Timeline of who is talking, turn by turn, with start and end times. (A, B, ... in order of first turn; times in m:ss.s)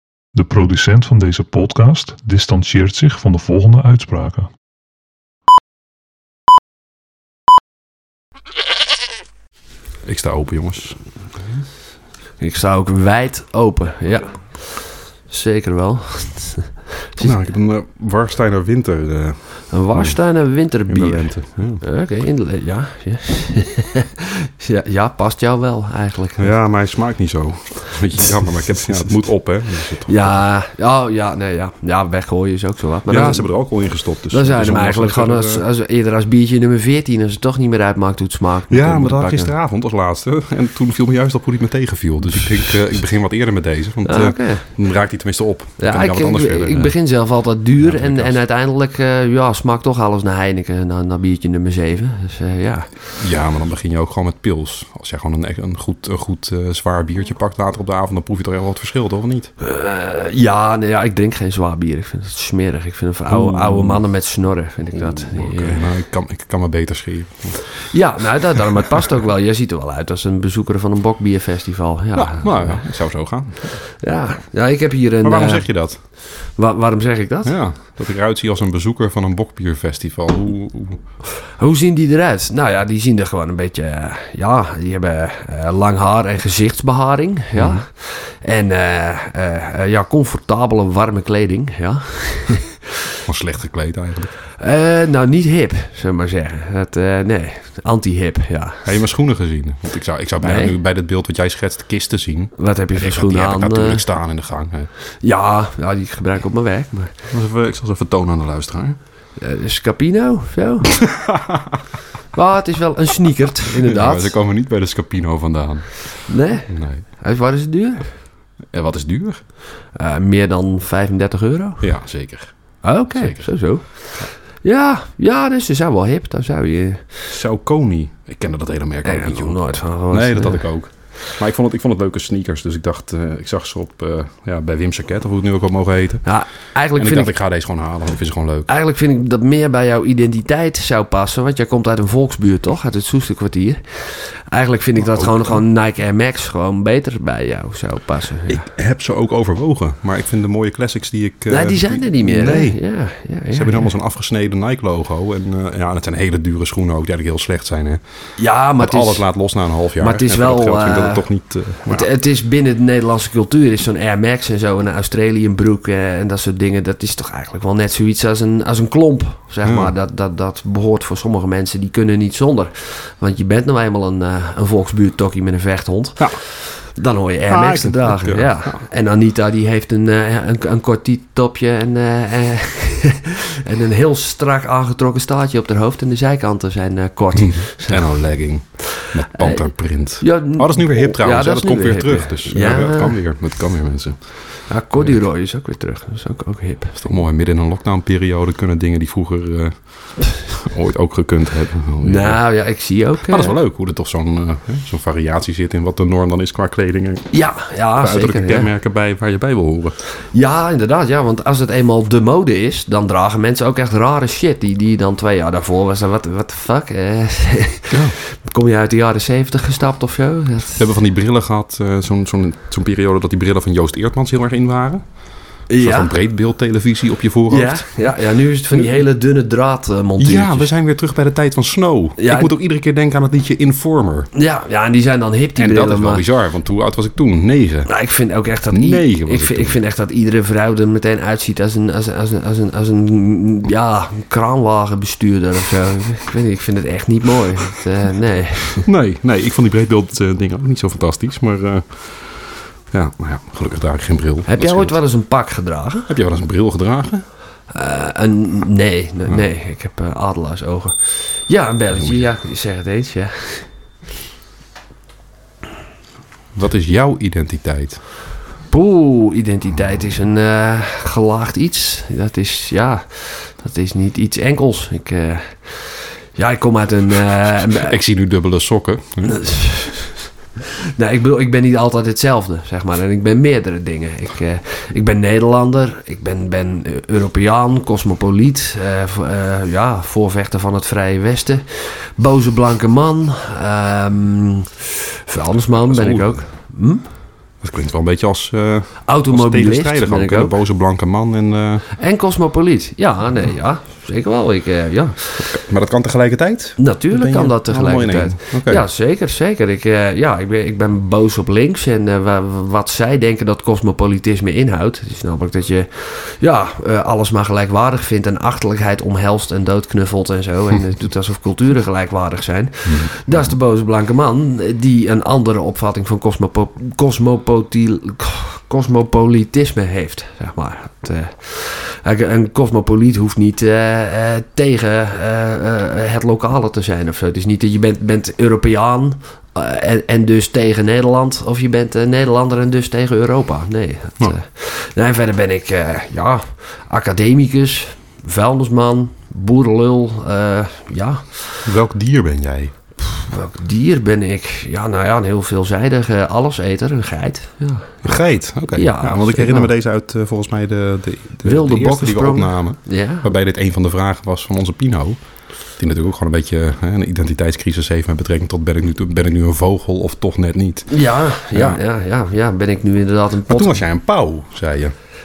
0:00.3-0:04.5 A
0:10.0-0:11.0 B
0:12.4-0:17.3 C
0:17.2-0:20.3 B
0:19.7-0:26.5 C
0:20.9-0:21.8 B
0:26.4-0:30.4 B
0:30.1-0:33.5 C
0:33.1-0:35.6 B
0:34.3-0:39.5 C
0:38.7-0:46.9 B
0:44.0-0:44.7 C
0:45.8-0:52.9 C
0:47.8-0:48.4 B
0:53.2-0:59.5 B
0:59.6-1:05.8 C
1:03.3-1:04.0 B
1:04.9-1:07.8 B
1:07.8-1:12.9 C
1:12.1-1:13.8 B
1:14.0-1:15.7 C
1:15.2-1:16.0 B
1:16.6-1:17.6 C
1:17.4-1:21.0 B
1:21.6-1:33.0 C
1:27.6-1:27.8 B
1:33.3-1:34.3 B
1:34.6-1:38.9 C
1:38.9-1:44.9 B
1:40.4-1:40.7 C
1:42.6-1:44.0 C
1:45.2-1:47.1 C
1:47.3-1:49.0 B
1:49.4-1:51.2 C
1:51.0-1:51.6 B
1:52.3-1:54.4 C
1:53.8-1:57.0 B
1:56.3-1:58.2 C
1:58.6-1:59.4 B
1:59.9-2:01.9 C
2:01.8-2:03.5 B
2:02.8-2:07.0 C
2:07.3-2:16.3 B
2:09.0-2:10.6 C
2:16.2-2:17.3 C
2:17.0-2:18.7 B
2:18.7-2:28.7 C
2:25.0-2:25.6 B
2:28.5-2:32.8 B
2:31.5-2:33.9 C
2:33.5-2:38.0 B
2:38.4-2:39.3 C
2:38.8-2:42.1 B
2:40.0-2:41.3 C
2:41.8-3:08.1 C
2:49.6-2:49.9 B
2:57.5-2:58.8 B
3:07.4-3:15.2 B
3:08.9-3:13.2 C
3:14.7-3:17.1 C
3:17.0-3:22.4 B
3:22.0-3:23.5 C
3:23.3-3:27.3 B
3:27.3-3:28.7 C
3:28.0-3:30.0 B
3:30.3-3:40.9 C
3:37.9-3:38.2 B
3:40.8-3:45.0 B
3:45.7-3:46.2 C
3:45.8-3:48.1 B
3:47.5-3:50.7 C
3:48.7-3:49.0 B
3:50.2-3:54.3 B
3:52.2-3:52.5 C
3:54.3-3:56.2 C
3:55.6-3:57.9 B
3:57.9-4:08.9 C
3:58.7-3:59.8 B
4:08.8-4:15.0 B
4:14.5-4:16.1 C
4:16.1-4:17.3 B
4:17.7-4:23.7 C
4:22.0-4:22.2 B
4:26.6-4:28.0 B
4:28.7-4:38.0 C
4:37.5-4:39.4 B
4:39.2-4:40.3 C
4:41.0-4:57.1 C
4:55.9-4:56.4 B
4:57.6-5:01.9 B
4:59.1-5:00.5 C
5:02.0-5:05.4 C
5:05.4-5:08.8 B
5:06.8-5:51.6 C
5:22.8-5:23.5 B
5:51.6-5:52.7 B
5:53.0-5:58.1 C
5:58.0-6:05.2 B
5:58.7-5:59.7 C
6:01.4-6:03.3 C
6:05.8-6:10.9 B
6:10.9-6:13.8 C
6:11.5-6:11.8 B
6:13.5-6:14.9 B